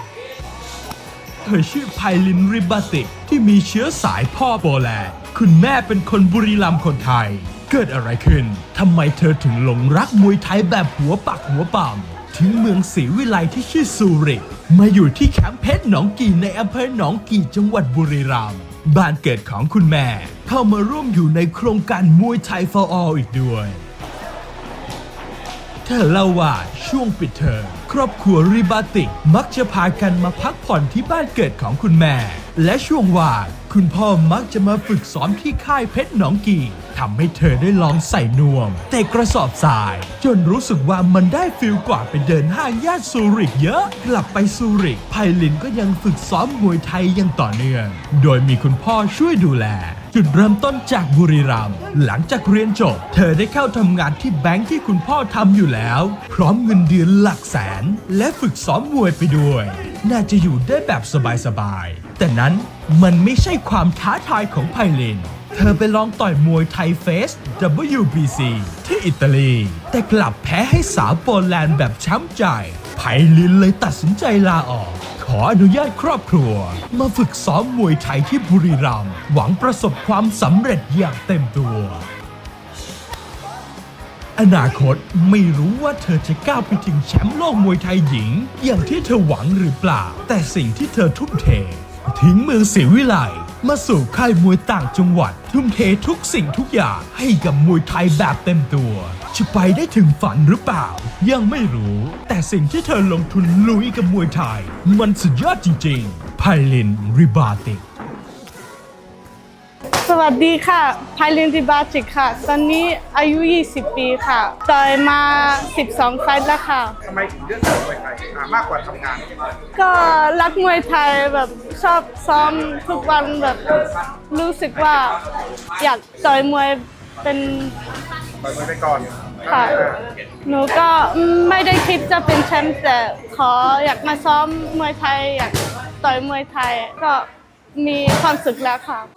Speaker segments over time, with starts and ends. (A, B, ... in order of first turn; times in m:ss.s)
0:01.4-0:23.8 A
0:25.8-1:22.1 A
1:24.4-1:47.8 A
1:50.0-1:57.0 B
1:57.0-1:59.3 C
1:59.8-2:05.2 B
2:05.8-2:07.8 B
2:08.4-2:09.4 C
2:09.4-2:09.9 B
2:10.4-2:19.1 B